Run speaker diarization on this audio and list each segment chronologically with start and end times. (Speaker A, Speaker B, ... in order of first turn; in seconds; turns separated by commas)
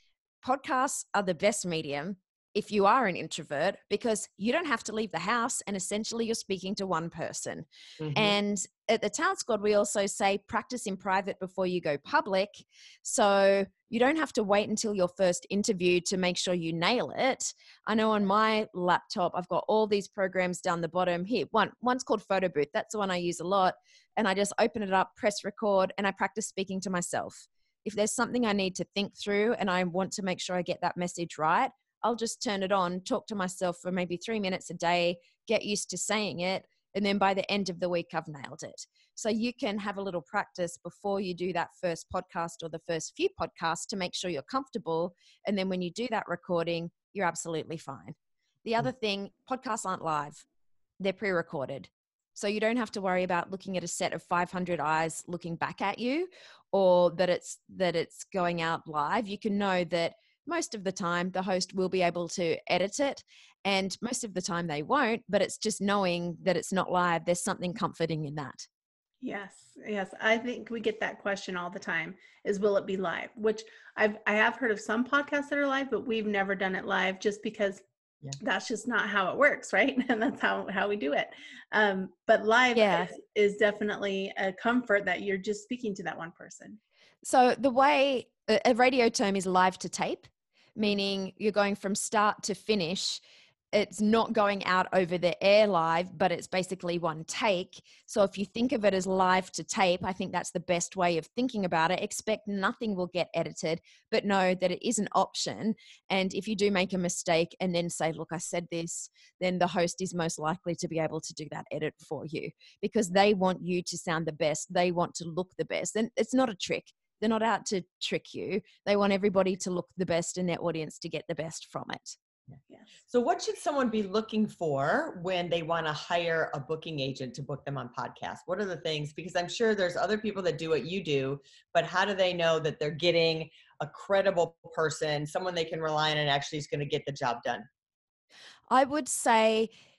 Speaker A: 0.4-50.4, Speaker B: 8.0-8.4, Speaker A: 51.0-68.7, Speaker C: 69.2-77.8, Speaker C: 78.4-86.8, Speaker A: 82.7-83.1, Speaker A: 87.2-122.2, Speaker B: 123.1-137.7, Speaker A: 138.7-139.7